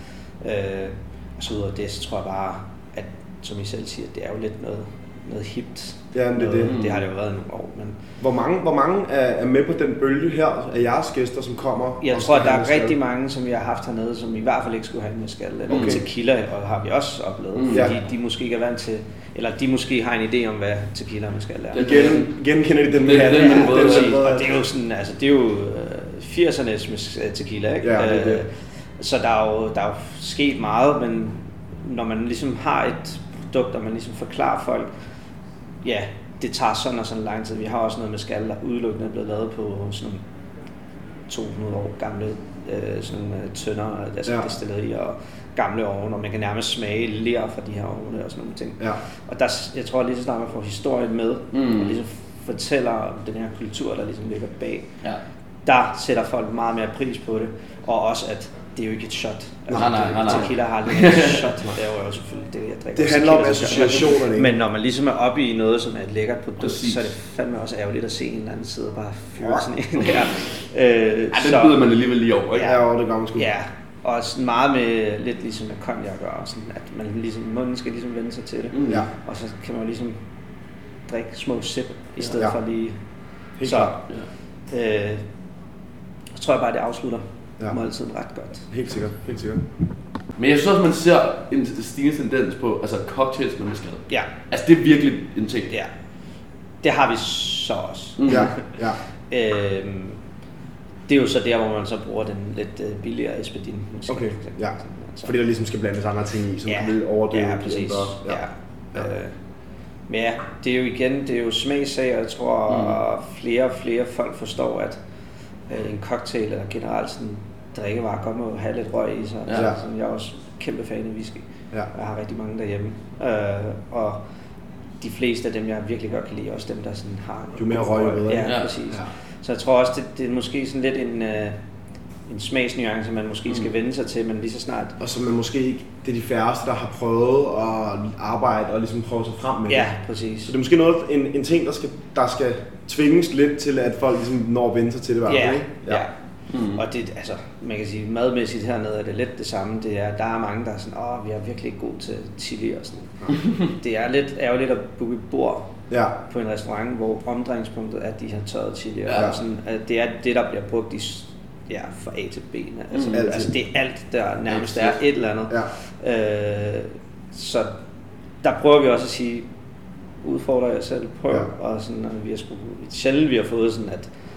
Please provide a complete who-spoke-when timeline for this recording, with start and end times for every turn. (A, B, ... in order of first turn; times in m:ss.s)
0:00.4-0:08.0 A
0:06.1-0:06.7 B
0:06.6-0:07.0 C
0:08.2-0:13.0 B
0:12.0-0:22.0 A
0:15.7-0:16.0 B
0:15.7-0:16.0 C
0:17.6-0:17.9 C
0:21.7-0:22.3 C
0:21.8-0:24.5 B
0:22.9-0:24.2 C
0:23.1-0:34.9 A
0:27.8-0:28.4 B
0:35.8-0:40.2 A
0:41.3-0:54.9 A
0:51.5-0:51.9 C
0:55.6-1:11.8 A
0:59.7-1:01.6 C
0:59.7-1:00.4 B
1:03.0-1:04.5 B
1:06.6-1:07.0 C
1:11.3-1:12.8 C
1:12.6-1:13.5 B
1:13.4-1:20.2 A
1:18.7-1:19.1 C
1:21.1-1:23.0 A
1:22.2-1:22.6 B
1:23.6-1:24.0 B
1:23.6-1:24.0 A
1:24.7-1:25.2 A
1:26.4-1:28.7 A
1:28.7-1:29.6 B
1:30.4-1:35.7 C
1:36.8-1:38.6 A
1:38.2-1:38.5 C
1:38.3-1:39.0 B
1:39.3-1:40.2 A
1:41.1-1:45.3 A
1:44.1-1:48.4 B
1:46.7-1:49.4 A
1:50.1-1:55.0 A
1:55.7-2:04.2 A
2:05.0-2:11.6 A
2:07.6-2:09.1 B
2:08.4-2:08.7 C
2:12.3-2:15.0 A
2:15.0-2:19.9 B
2:19.7-2:20.6 A
2:20.5-2:26.0 B
2:25.3-2:35.7 A
2:26.5-2:26.8 C
2:35.9-2:36.2 B
2:36.2-2:47.7 A
2:39.1-2:39.4 B
2:43.1-2:43.5 B
2:44.6-2:44.9 C
2:48.4-2:49.5 A
2:50.2-2:54.1 A